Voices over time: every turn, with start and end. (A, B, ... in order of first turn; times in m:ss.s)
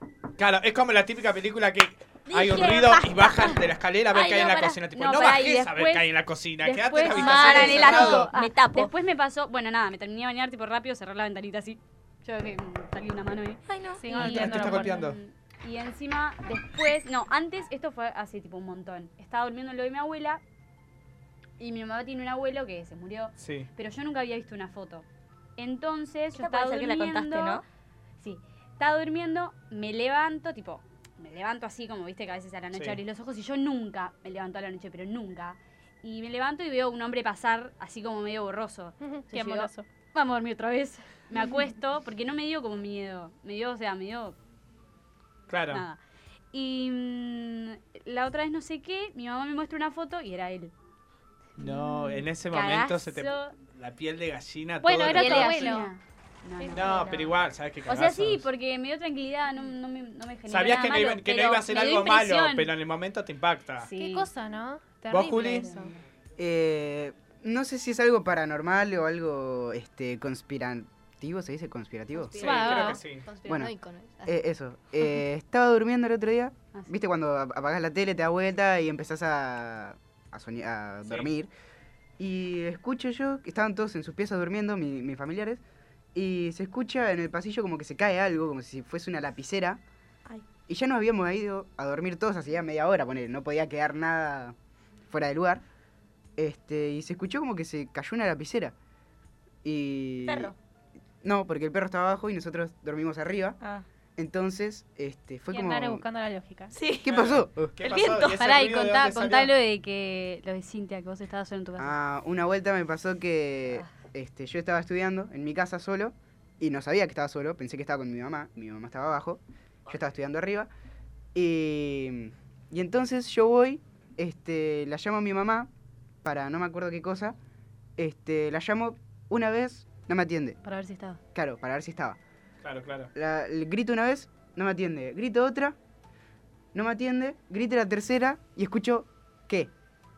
0:00.4-0:08.3 A
0:02.3-0:03.6 B
0:04.1-0:04.8 B
0:04.9-0:20.4 C
0:07.1-0:08.9 B
0:13.7-0:14.1 B
0:14.0-0:15.1 D
0:14.1-0:15.2 A
0:21.6-0:25.0 C
0:23.4-0:23.7 A
0:25.6-0:27.6 C
0:26.3-0:27.6 B
0:28.2-0:44.4 C
0:32.7-0:33.0 A
0:39.0-0:39.9 D
0:45.5-0:45.9 A
0:45.7-0:46.0 C
0:46.5-0:50.7 C
0:51.6-0:53.5 C
0:51.6-0:55.7 A
0:54.8-0:55.9 D
0:55.0-0:57.3 C
0:56.6-0:57.1 D
0:56.7-0:58.5 A
0:57.9-1:02.7 C
1:00.5-1:03.9 A
1:03.8-1:04.3 C
1:04.0-1:05.9 D
1:05.1-1:05.7 A
1:05.5-1:06.0 C
1:06.4-1:12.6 E
1:12.2-1:14.4 F
1:12.4-1:13.3 A
1:12.4-1:13.0 D
1:13.4-1:13.7 E
1:14.3-1:21.5 E
1:22.2-1:25.6 E
1:26.1-1:29.8 E
1:30.7-1:34.6 E
1:35.1-1:35.6 E
1:36.4-1:38.7 E
1:39.6-1:40.5 E
1:40.2-1:40.5 B
1:41.2-1:43.6 E
1:44.2-1:46.0 E
1:45.5-1:46.7 D
1:46.7-1:47.1 B
1:47.0-1:47.7 E
1:47.1-1:49.5 A
1:47.8-1:48.3 B
1:48.4-1:51.9 C
1:51.8-2:00.7 E
2:01.3-2:05.7 E
2:06.2-2:07.4 E
2:08.0-2:10.6 E
2:10.7-2:11.1 C
2:10.7-2:11.1 D
2:11.3-2:12.2 E
2:12.6-2:13.1 A
2:13.1-2:15.8 E
2:16.7-2:19.7 E